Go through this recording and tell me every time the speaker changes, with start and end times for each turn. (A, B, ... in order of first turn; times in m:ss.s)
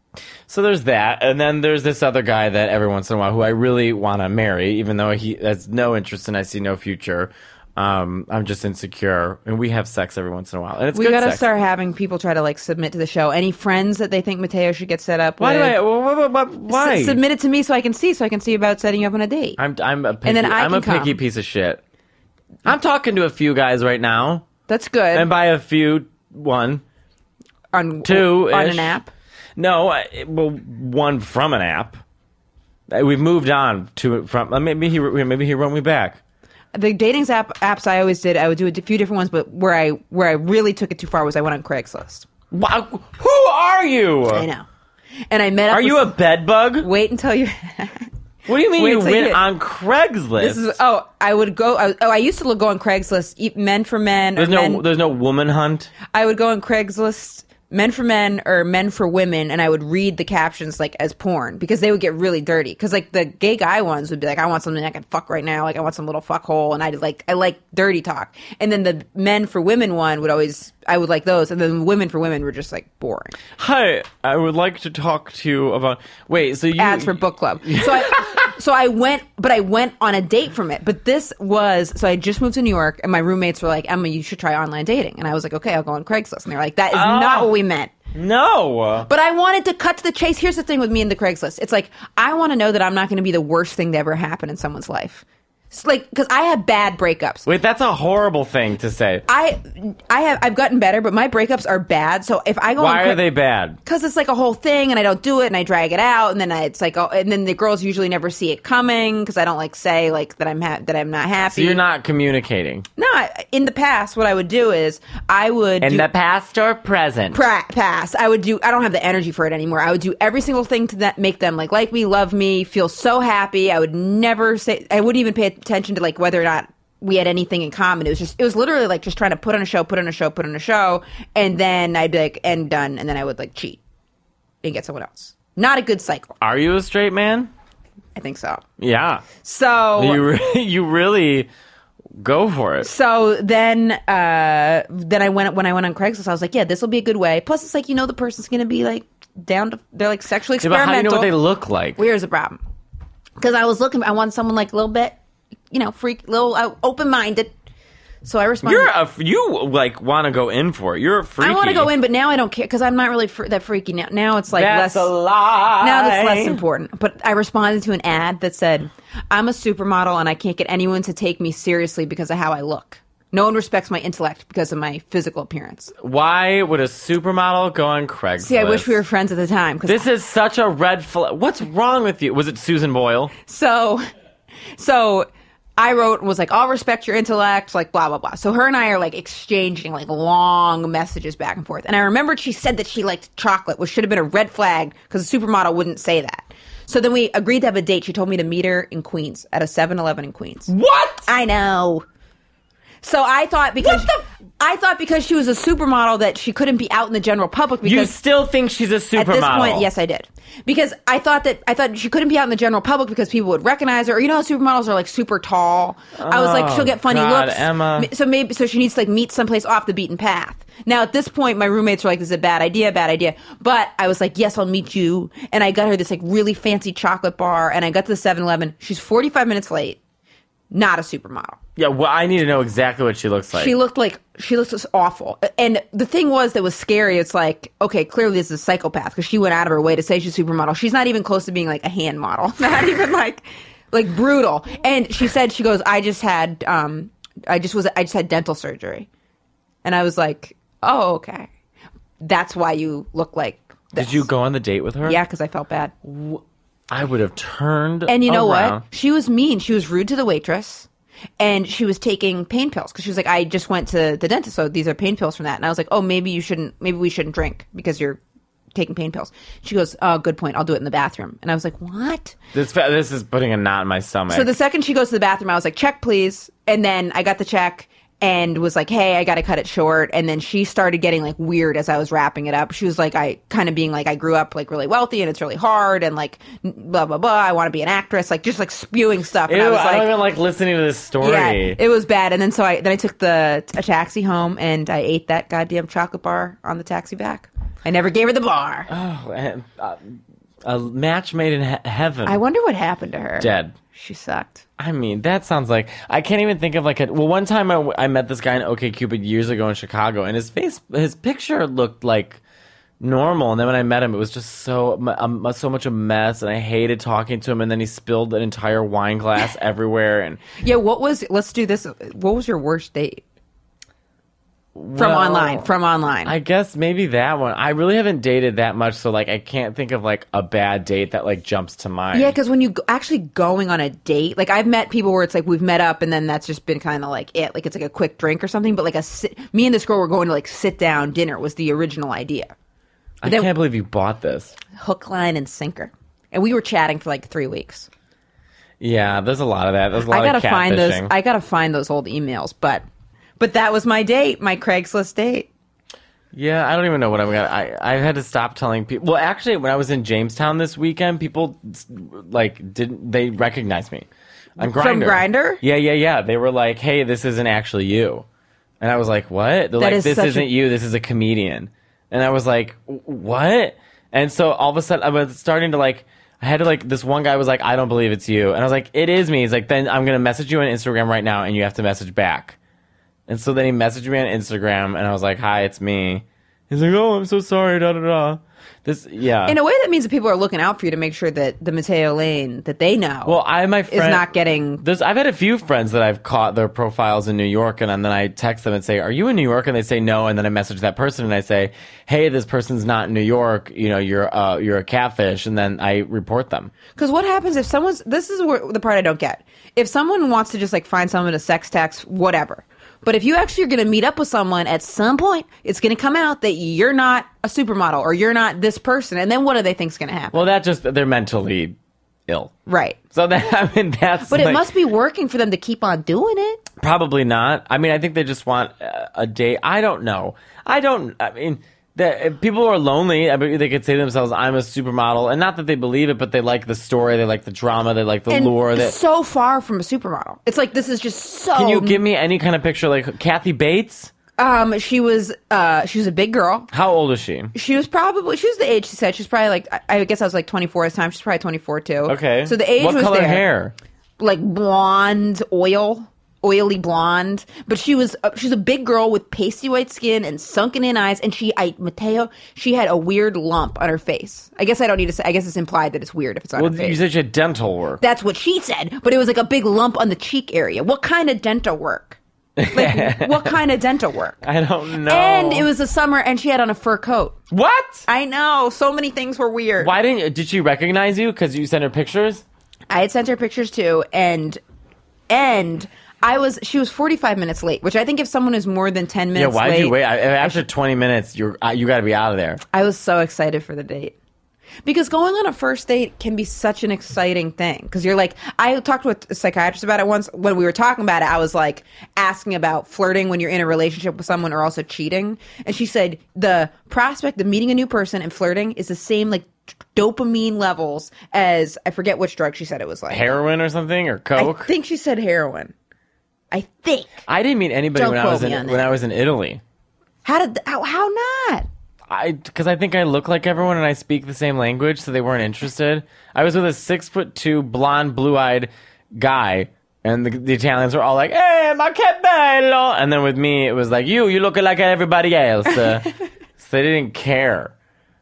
0:00.5-0:11.4 A
0:10.9-0:15.8 B
0:15.4-0:17.2 A
0:16.7-0:19.6 B
0:19.6-0:21.8 A
0:20.2-0:21.2 B
0:22.6-0:24.4 A
0:24.7-0:25.3 B
0:25.1-0:26.8 A
0:27.7-0:29.1 B
0:28.0-0:29.0 A
0:29.6-0:32.0 A
0:32.9-0:36.2 A
0:36.7-0:42.3 B
0:42.5-0:44.5 A
0:44.3-0:44.6 B
0:45.3-0:46.1 B
0:45.7-0:46.9 A
0:46.8-0:49.4 B
0:48.5-0:50.8 A
0:50.4-0:54.8 B
0:54.4-0:55.9 A
0:56.1-1:13.4 B
1:13.6-1:18.5 A
1:16.8-1:27.9 B
1:26.9-1:27.5 A
1:28.1-1:29.1 A
1:29.1-1:37.5 B
1:37.4-1:39.2 A
1:39.3-1:43.2 B
1:42.8-1:43.8 A
1:43.8-1:51.8 B
1:51.5-1:52.8 A
1:53.0-1:56.1 B
1:55.8-1:57.4 A
1:57.3-2:13.8 B
2:14.6-2:16.3 B
2:16.4-2:17.5 A
2:18.1-2:18.6 B
2:18.8-2:19.2 A
2:19.4-2:20.2 B
2:20.0-2:21.5 A
2:22.2-2:22.9 A
2:22.8-2:31.3 B
2:30.6-2:32.0 A
2:32.0-2:32.6 B
2:33.4-2:35.2 B
2:35.7-2:37.5 B
2:38.2-2:38.9 B
2:38.6-2:41.9 A
2:41.4-2:45.1 B
2:44.5-2:46.6 A
2:45.8-2:55.9 B
2:56.0-2:59.0 A
2:58.4-3:00.0 B
2:59.8-3:03.3 A
3:03.4-3:04.0 B
3:04.8-3:20.7 B
3:20.7-3:21.3 A
3:21.2-3:22.0 B
3:23.0-3:28.1 B
3:27.8-3:29.9 A
3:29.1-3:50.0 B
3:36.2-3:38.1 A
3:50.7-3:51.6 B
3:51.8-3:53.7 A
3:53.5-4:09.1 B
4:09.8-4:11.5 B
4:12.2-4:14.2 B
4:14.0-4:15.2 A
4:15.0-4:15.9 B
4:16.0-4:18.8 A
4:18.1-4:20.9 B
4:21.4-4:28.2 B
4:28.7-4:32.4 B
4:32.5-4:34.5 A
4:34.3-4:50.1 B
4:49.5-4:51.8 A
4:51.2-4:58.9 B
4:58.9-5:02.4 A
5:02.2-5:04.6 B
5:03.4-5:03.7 A
5:04.8-5:12.4 A
5:13.0-5:20.4 A
5:20.6-5:23.2 B
5:24.7-5:25.7 A
5:25.0-5:26.3 B
5:26.2-5:32.4 A
5:32.1-5:42.5 B
5:43.2-5:44.6 A
5:44.7-5:47.9 B
5:48.8-5:51.1 A
5:50.1-5:52.8 B
5:53.4-5:55.5 B
5:56.3-6:04.1 A
6:04.6-6:08.2 A
6:04.6-6:05.6 B
6:08.8-6:22.6 A
6:09.8-6:10.5 B
6:23.3-6:29.6 A
6:29.4-6:33.4 B
6:33.2-6:34.2 A
6:33.9-6:34.8 B
6:34.8-6:46.7 A
6:47.0-7:00.4 B
7:00.3-7:01.7 A
7:02.3-7:02.5 A
7:02.7-7:03.0 B
7:03.1-7:04.6 A
7:04.2-7:06.6 B
7:06.8-7:19.0 A
7:18.3-7:22.0 B
7:21.5-7:24.1 A
7:24.4-7:26.7 B
7:26.7-7:27.5 A
7:27.5-7:33.4 B
7:32.1-7:33.7 A
7:34.2-7:47.0 B
7:46.6-7:48.0 A
7:48.0-7:52.2 B
7:52.6-7:53.6 A
7:52.7-7:54.4 B
7:54.4-7:55.7 A
7:55.0-7:57.4 B
7:57.5-7:58.0 A
7:58.1-7:59.9 B
7:59.8-8:02.4 A
8:02.9-8:04.6 B
8:05.3-8:10.6 B
8:09.3-8:12.6 A
8:12.7-8:14.1 B
8:14.8-8:33.3 B
8:33.1-8:34.7 A
8:34.4-8:35.7 B
8:36.5-8:37.2 B
8:37.3-8:39.6 A
8:37.9-8:38.9 B
8:40.2-8:41.7 B
8:42.1-8:57.7 A